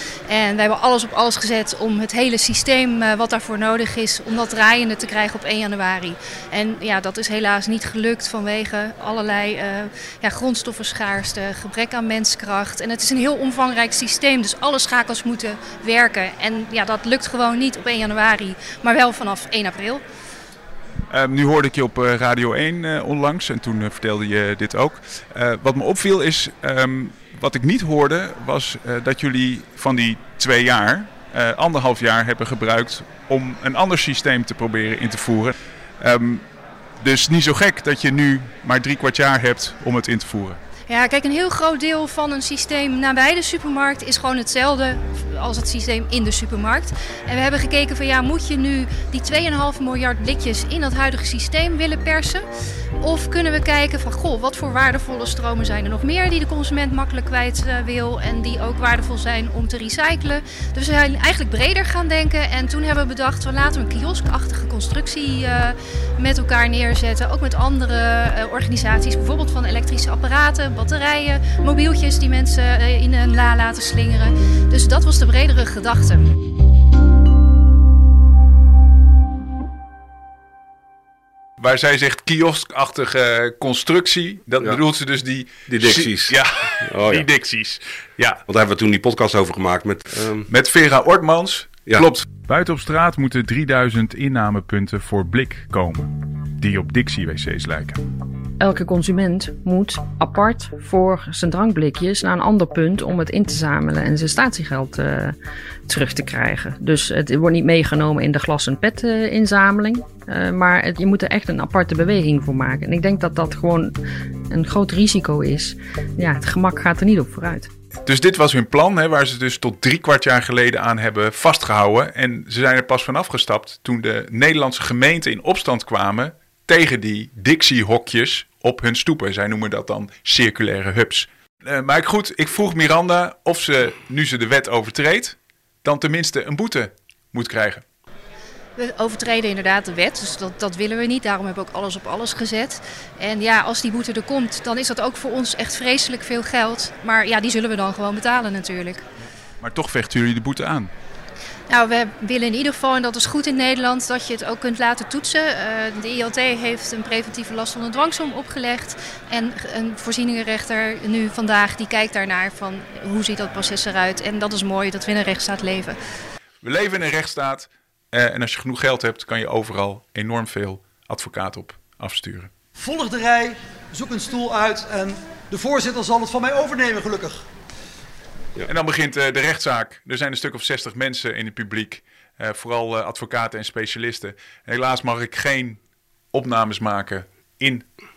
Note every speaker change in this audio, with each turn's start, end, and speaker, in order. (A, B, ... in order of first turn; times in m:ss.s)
0:00.3-0:20.0 A
0:21.1-0:36.5 B
0:37.0-0:40.6 B
0:40.9-0:52.5 A
0:53.0-1:16.3 A
1:21.6-1:28.4 B
1:25.7-1:27.3 C
1:28.5-1:30.5 C
1:30.5-1:38.0 B
1:31.9-1:32.1 C
1:38.6-1:45.4 D
1:45.9-1:53.9 D
1:54.5-1:57.7 D
1:58.0-2:17.8 B
2:18.8-2:29.0 A
2:29.6-2:30.9 B
2:31.7-2:46.0 A
2:46.6-2:52.5 B
2:52.8-2:57.4 E
2:58.7-3:05.8 B
3:06.3-3:07.8 B